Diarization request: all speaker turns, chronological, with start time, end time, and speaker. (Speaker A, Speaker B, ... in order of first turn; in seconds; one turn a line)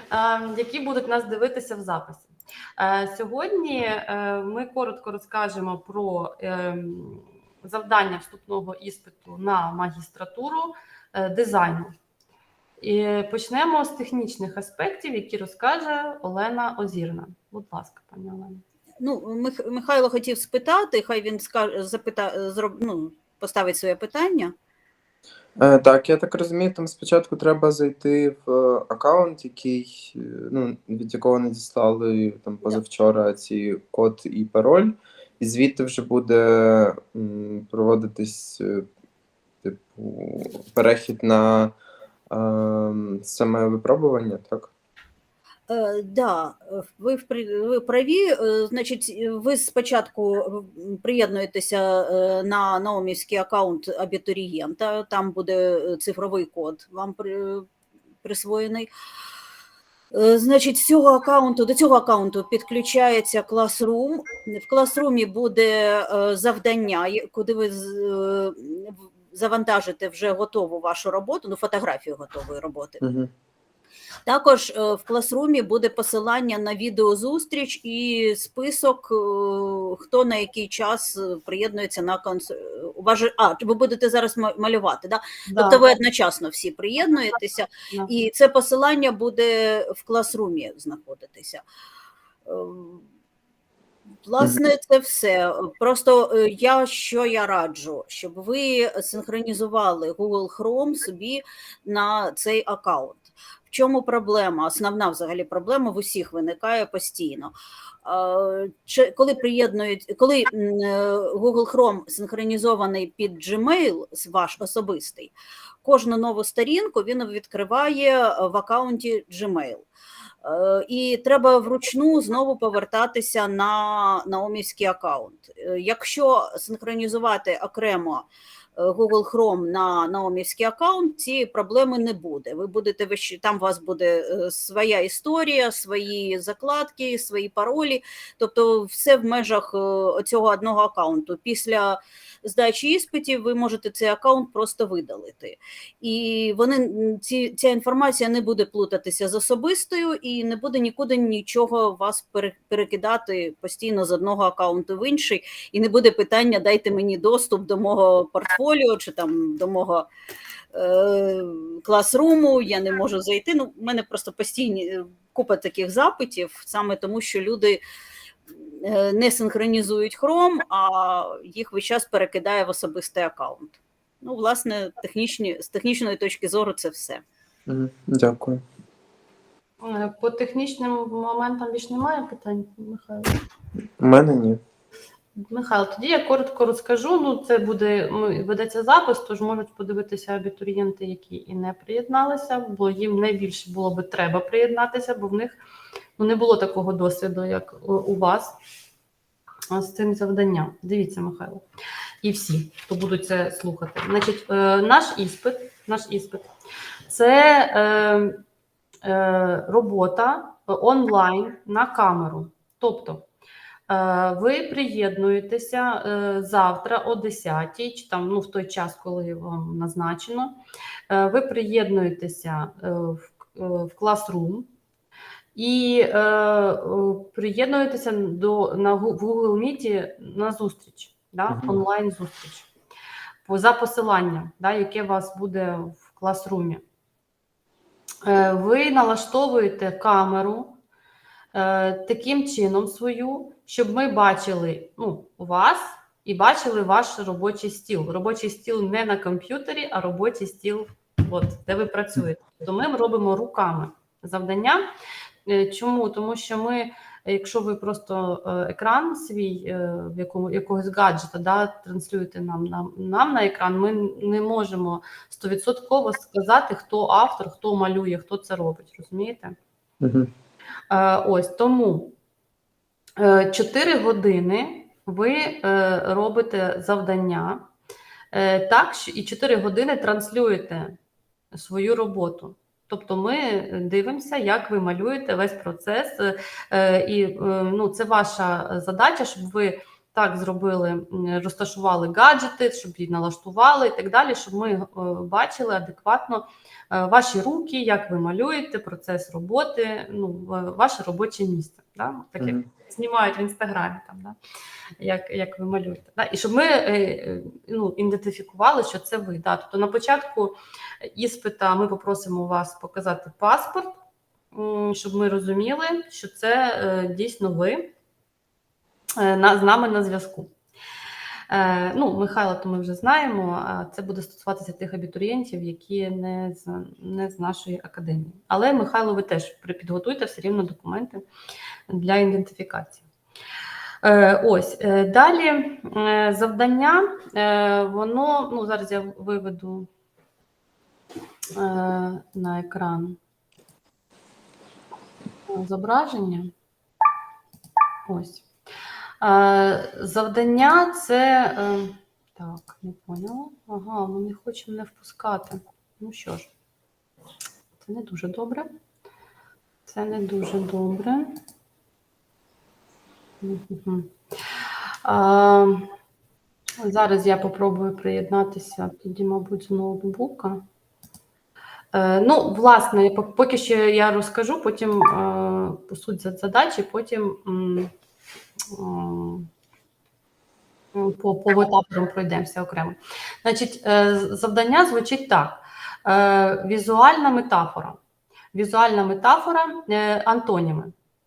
Speaker A: 0.1-11.9
Speaker A: 12.8-18.6
Speaker B: 19.0-24.5
Speaker C: 25.6-38.9
Speaker C: 39.6-41.8
Speaker C: 42.3-44.7
Speaker B: 45.7-57.7
Speaker B: 58.2-58.9
Speaker B: 60.1-73.0
Speaker C: 73.0-73.3
Speaker B: 74.3-91.6
Speaker A: 85.5-85.8
Speaker B: 92.5-93.0
Speaker B: 94.2-107.5
Speaker B: 108.0-119.9
Speaker B: 120.4-160.1
Speaker B: 160.7-167.8
Speaker B: 168.6-177.2
Speaker C: 177.7-178.6
Speaker A: 179.8-183.3
Speaker C: 184.0-184.6
Speaker A: 185.4-195.6
Speaker A: 196.2-198.6
Speaker A: 199.7-201.7
Speaker A: 202.2-206.5
Speaker A: 207.1-208.4
Speaker A: 209.0-213.3
Speaker A: 213.9-220.6
Speaker A: 221.1-224.7
Speaker A: 225.6-232.7
Speaker C: 231.5-231.8
Speaker A: 233.4-236.8
Speaker A: 238.2-240.8
Speaker A: 241.5-254.9
Speaker A: 255.5-269.6
Speaker C: 270.0-270.3
Speaker A: 270.9-272.2
Speaker A: 273.2-277.7
Speaker A: 278.3-281.0
Speaker A: 281.5-304.4
Speaker A: 305.0-314.0
Speaker A: 314.5-317.9
Speaker A: 319.2-320.5
Speaker A: 321.5-331.2
Speaker A: 331.9-333.0
Speaker A: 334.0-339.9
Speaker A: 341.6-343.2
Speaker A: 345.5-346.5
Speaker A: 348.1-348.4
Speaker A: 349.2-356.5
Speaker A: 357.8-358.7
Speaker A: 359.9-361.4
Speaker A: 363.4-364.1
Speaker A: 365.1-365.9
Speaker A: 366.8-370.6
Speaker A: 371.9-377.9
Speaker A: 378.7-379.5
Speaker A: 380.9-388.0
Speaker A: 388.5-390.9